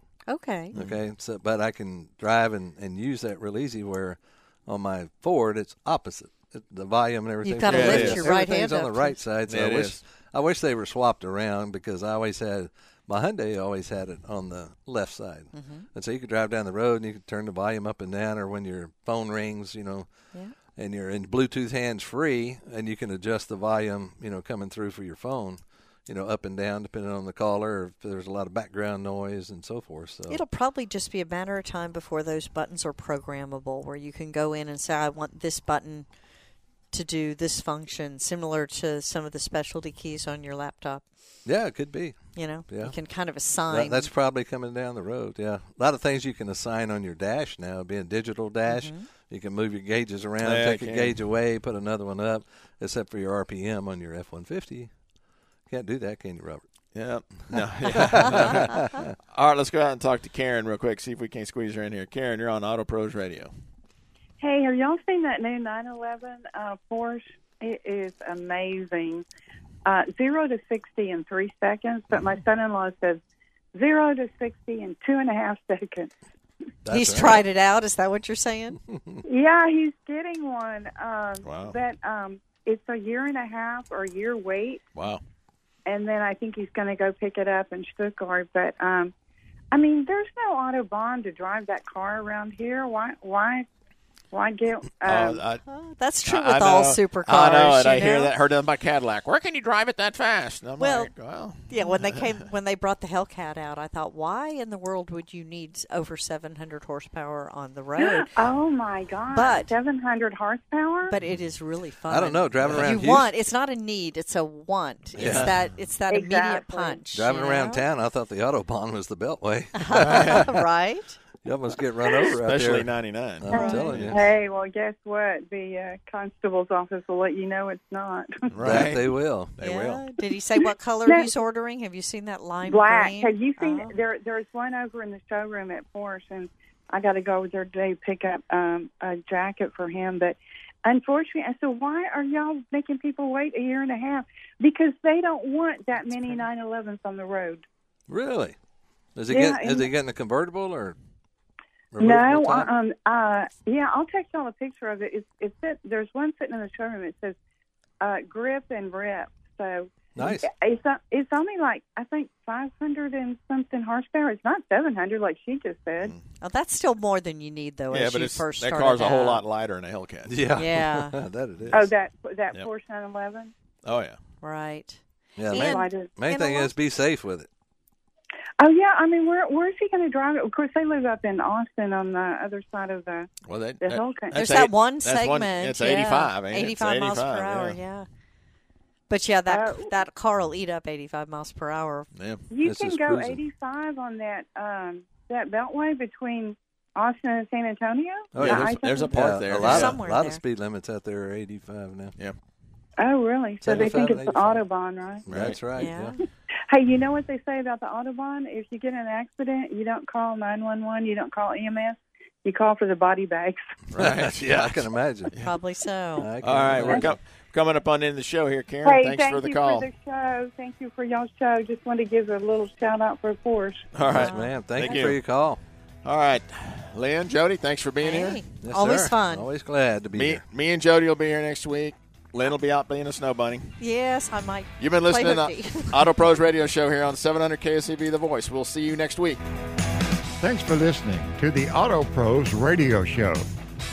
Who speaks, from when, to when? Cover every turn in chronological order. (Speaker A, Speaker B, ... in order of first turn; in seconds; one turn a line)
Speaker A: 0.3-0.7
Speaker B: 0.7-20.1
Speaker C: 0.7-1.0
Speaker A: 7.4-9.2
Speaker C: 7.7-8.3
Speaker C: 9.5-10.0
Speaker A: 15.5-15.9
Speaker B: 20.7-30.4
Speaker A: 30.3-36.1
Speaker A: 36.9-41.0
Speaker B: 41.4-42.9
Speaker A: 42.3-44.1
Speaker B: 43.7-54.9
Speaker A: 48.7-49.0
Speaker C: 50.4-51.2
Speaker B: 55.7-56.6
Speaker C: 56.9-63.5
Speaker B: 58.2-59.0
Speaker D: 64.4-69.2
Speaker D: 69.8-73.2
Speaker D: 73.7-76.1
Speaker B: 76.8-77.4
Speaker A: 76.9-78.8
Speaker D: 79.2-84.8
Speaker C: 81.4-81.8
Speaker C: 84.9-85.2
Speaker D: 85.8-89.1
Speaker D: 89.7-93.7
Speaker D: 94.3-95.4
Speaker C: 95.0-95.6
Speaker A: 95.7-98.3
Speaker C: 96.2-102.2
Speaker A: 100.8-101.1
Speaker A: 101.7-108.3
Speaker D: 108.0-111.1
Speaker A: 109.3-109.7
Speaker A: 111.1-117.8
Speaker B: 112.1-113.3
Speaker C: 112.6-112.9
Speaker B: 115.2-115.5
Speaker C: 115.2-115.5
Speaker D: 116.1-117.0
Speaker B: 117.1-120.5
Speaker A: 119.8-121.2
Speaker C: 119.9-120.5
Speaker B: 121.4-124.2
Speaker C: 122.4-124.2
Speaker D: 123.5-128.5
Speaker A: 123.5-123.9
Speaker C: 128.5-130.0
Speaker B: 128.6-129.5
Speaker A: 129.6-133.9
Speaker D: 132.6-147.7
Speaker B: 148.1-148.6
Speaker B: 149.2-150.9
Speaker D: 149.3-149.9
Speaker B: 151.9-152.7
Speaker D: 152.0-157.3
Speaker D: 158.0-166.1
Speaker B: 160.2-160.5
Speaker A: 166.4-169.4
Speaker C: 167.9-170.4
Speaker B: 170.3-171.9
Speaker A: 170.6-171.2
Speaker D: 171.7-173.5
Speaker C: 173.8-174.2
Speaker A: 174.4-175.0
Speaker B: 175.4-177.5
Speaker A: 175.5-176.7
Speaker D: 175.5-176.1
Speaker D: 178.6-183.3
Speaker C: 183.4-187.8
Speaker D: 183.8-184.4
Speaker A: 184.3-188.1
Speaker A: 189.1-192.1
Speaker D: 189.5-189.9
Speaker C: 192.1-192.4
Speaker D: 192.5-199.1
Speaker B: 192.6-193.4
Speaker B: 198.3-202.2
Speaker C: 198.4-200.0
Speaker A: 199.6-200.4
Speaker D: 203.0-205.2
Speaker B: 203.6-204.6
Speaker B: 205.2-206.2
Speaker C: 205.3-205.6
Speaker A: 205.8-206.2
Speaker D: 206.7-213.7
Speaker C: 213.9-215.5
Speaker B: 213.9-215.3
Speaker A: 215.4-216.3
Speaker B: 216.2-217.1
Speaker C: 216.4-219.9
Speaker D: 218.8-223.9
Speaker C: 223.9-225.2
Speaker B: 224.1-225.6
Speaker A: 224.1-224.5
Speaker C: 226.0-228.4
Speaker A: 228.0-229.5
Speaker B: 228.6-230.4
Speaker C: 230.1-233.8
Speaker A: 233.8-236.1
Speaker C: 234.8-239.4
Speaker E: 240.4-243.5